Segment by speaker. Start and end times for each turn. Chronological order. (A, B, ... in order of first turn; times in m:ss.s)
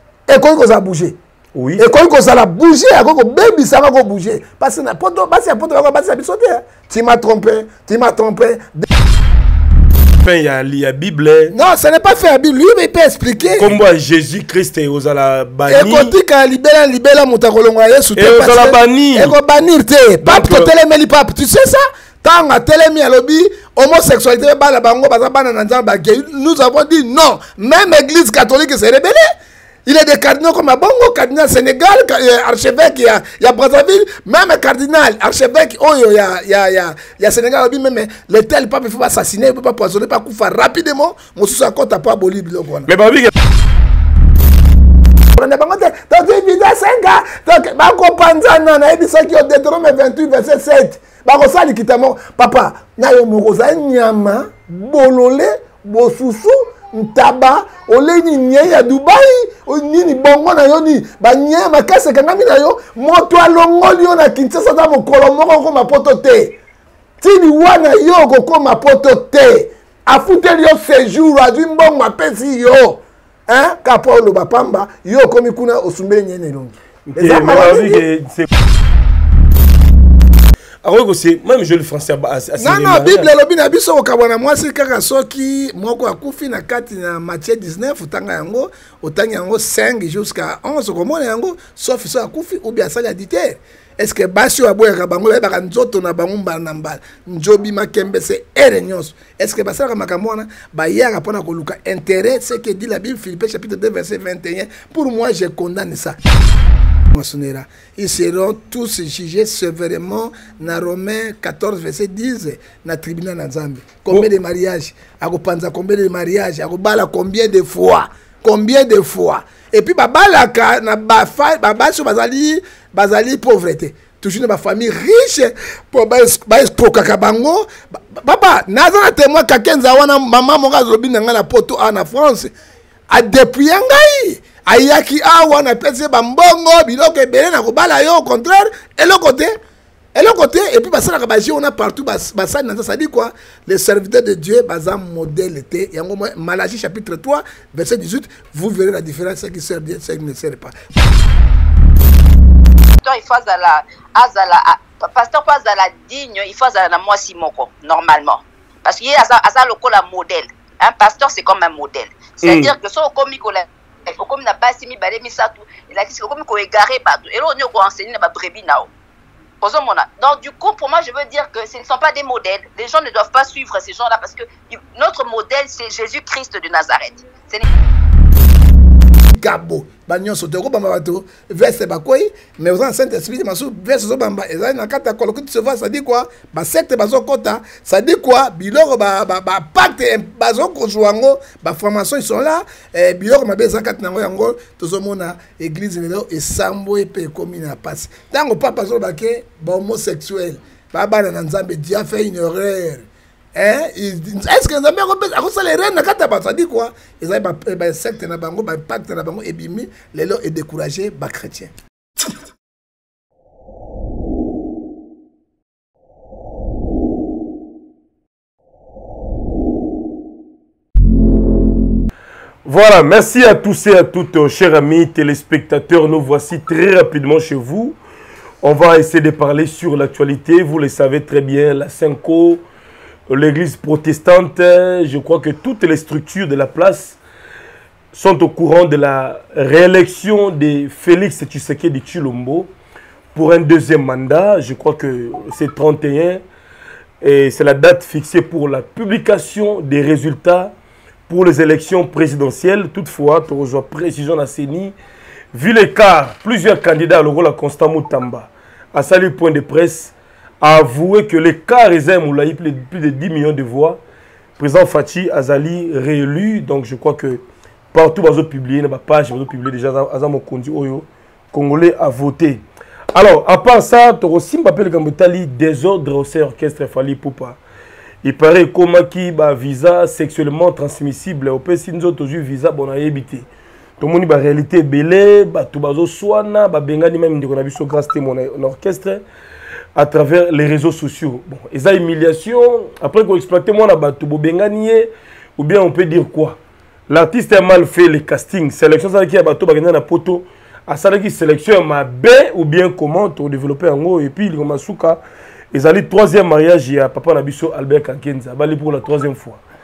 0:00.3-0:01.2 A
0:01.5-0:01.9 B
0:01.8-0:08.9 A
0:10.2-0:11.5 B
0:11.5-0:13.7 A
0:13.6-0:16.1 B
0:15.7-0:29.3 A
0:18.1-0:19.4 B
0:20.2-0:20.7 B
0:29.8-0:42.9 A
0:42.9-0:43.3 B
0:45.3-1:06.5 A
1:07.2-1:18.0 A
1:17.0-1:18.5 B
1:20.8-1:23.3 B
1:22.6-1:46.2 A
1:47.1-2:12.5 A
2:13.1-2:19.6 A
2:20.1-2:30.7 A
2:33.0-2:48.9 C
2:42.4-2:42.7 B
2:49.6-2:57.6 C
2:59.3-3:31.7 A
3:42.6-3:48.0 B
3:48.6-3:52.6 B
3:53.3-3:57.2 B
3:58.1-4:02.7 B
4:03.3-4:06.4 B
4:07.2-4:10.7 B
4:11.3-4:14.9 B
4:15.5-4:24.0 B
4:24.6-4:37.6 B
4:38.2-4:43.5 B
4:44.0-4:49.2 B
4:49.9-5:05.2 B
5:05.7-5:09.6 B